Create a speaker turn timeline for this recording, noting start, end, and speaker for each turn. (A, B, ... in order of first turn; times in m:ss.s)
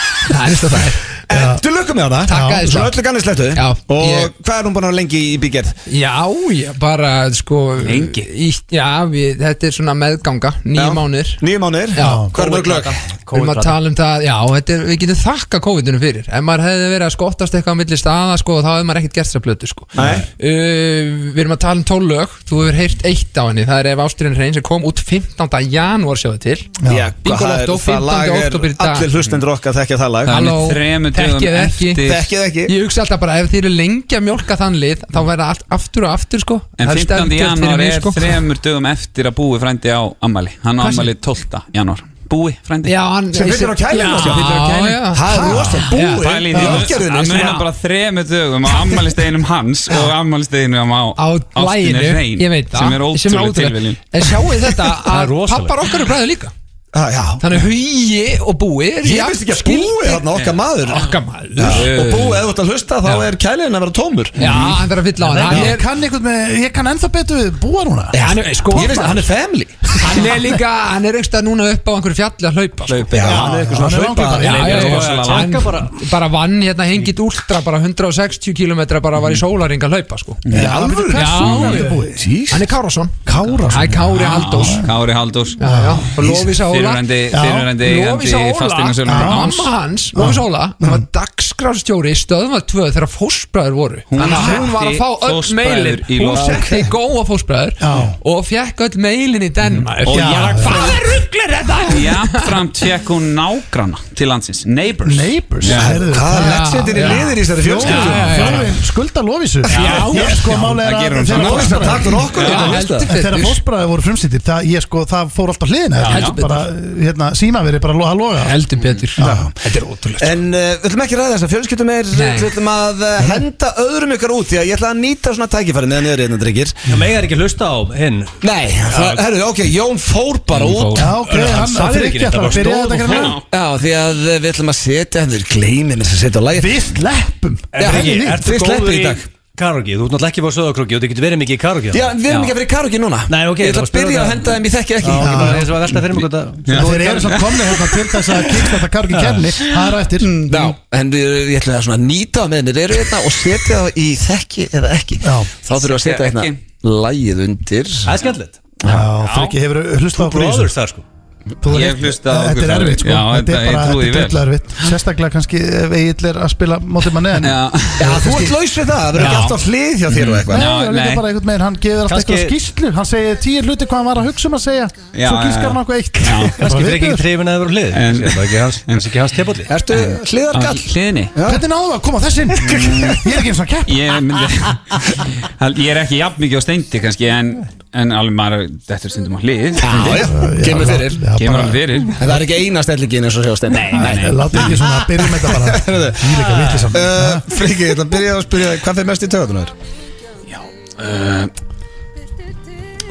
0:00.3-0:01.0 A
0:01.3-0:05.8 B
0:01.3-0:01.6 C
0:02.3-0:02.8 C
0:02.3-0:02.9 A
0:03.6-0:04.3 A
0:05.9-0:11.4 A
0:07.8-0:08.3 D
0:10.7-0:13.0 B
0:12.0-0:12.3 A
0:12.0-0:12.3 C
0:12.4-0:13.8 E
0:13.3-0:26.7 A
0:20.0-0:20.3 B
0:20.0-0:20.2 E
0:26.8-0:27.1 C
0:26.9-0:30.5 B
0:27.2-0:29.1 A
0:30.3-0:32.2 D
0:30.3-0:32.0 A
0:32.0-0:32.7 B
0:32.7-0:38.4 A
0:36.8-0:42.9 D
0:40.8-0:41.1 A
0:42.8-0:46.2 A
0:43.3-0:47.6 B
0:45.2-0:45.8 C
0:46.1-0:54.4 D
0:46.5-0:46.8 C
0:51.2-0:56.5 A
0:55.1-0:55.8 E
0:56.9-0:57.5 B
0:57.4-1:00.2 A
0:59.0-1:04.7 B
1:00.8-1:01.9 A
1:01.6-1:02.4 D
1:04.4-1:05.8 A
1:05.2-1:05.6 E
1:05.4-1:08.2 C
1:08.1-1:10.2 B
1:08.2-1:09.2 A
1:08.7-1:09.1 C
1:10.0-1:13.1 A
1:12.8-1:13.5 D
1:13.1-1:14.6 B
1:13.2-1:14.8 C
1:14.4-1:16.0 E
1:14.5-1:15.5 D
1:14.5-1:20.4 A
1:20.4-1:21.8 D
1:20.5-1:22.3 C
1:20.5-1:22.7 B
1:21.2-1:21.9 A
1:22.5-1:24.8 A
1:23.2-1:24.9 C
1:24.1-1:25.6 D
1:25.6-1:26.1 C
1:25.6-1:27.1 A
1:26.1-1:29.7 D
1:27.3-1:27.7 C
1:27.7-1:42.8 A
1:29.0-1:29.5 C
1:30.1-1:31.0 C
1:34.1-1:36.6 D
1:34.3-1:34.6 B
1:36.3-1:36.9 B
1:37.8-1:38.2 C
1:39.7-1:41.0 D
1:40.1-1:40.9 C
1:41.9-1:46.0 D
1:45.0-1:58.6 C
1:45.7-1:48.7 B
1:46.3-1:48.7 A
1:49.7-1:52.8 D
1:49.8-1:50.1 B
1:49.8-1:50.4 A
1:51.3-1:53.1 B
1:52.3-1:53.6 A
1:56.0-1:56.4 D
1:56.1-1:56.6 A
1:58.4-2:00.4 A
1:59.2-1:59.5 C
1:59.2-1:59.6 B
2:00.2-2:06.8 B
2:02.1-2:02.5 A
2:06.9-2:08.4 E
2:08.4-2:11.1 B
2:08.9-2:09.2 E
2:10.5-2:11.0 D
2:10.9-2:13.4 C
2:11.0-2:13.3 E
2:13.1-2:13.4 D
2:13.5-2:16.8 B
2:16.5-2:18.4 C
2:17.7-2:22.5 E
2:17.8-2:19.2 B
2:21.9-2:25.7 B
2:23.3-2:27.4 E
2:25.2-2:26.0 C
2:26.7-2:30.4 C
2:29.1-2:29.4 E
2:30.5-2:38.1 B
2:35.2-2:35.5 C
2:35.8-2:36.6 D
2:38.0-2:38.6 E
2:38.8-2:39.1 B
2:38.8-2:40.7 C
2:39.0-2:39.5 D
2:40.1-2:41.0 E
2:41.6-2:48.5 C
2:41.7-2:44.4 D
2:47.4-2:48.2 D
2:48.0-2:50.7 B
2:49.1-2:49.5 C
2:49.2-2:49.6 D
2:50.1-2:51.2 D
2:50.5-2:57.2 C
2:52.1-2:52.5 E
2:55.1-2:56.6 D
2:56.6-2:59.7 E
2:57.9-2:59.0 D
2:59.7-3:01.6 B
2:59.9-3:01.3 D
3:01.4-3:04.1 C
3:02.6-3:03.2 D
3:03.8-3:10.3 D
3:09.8-3:11.2 B
3:10.0-3:11.8 C
3:10.8-3:12.3 D
3:12.2-3:16.2 B
3:13.7-3:14.8 D
3:14.0-3:17.4 C
3:16.9-3:19.7 B
3:20.5-3:21.5 D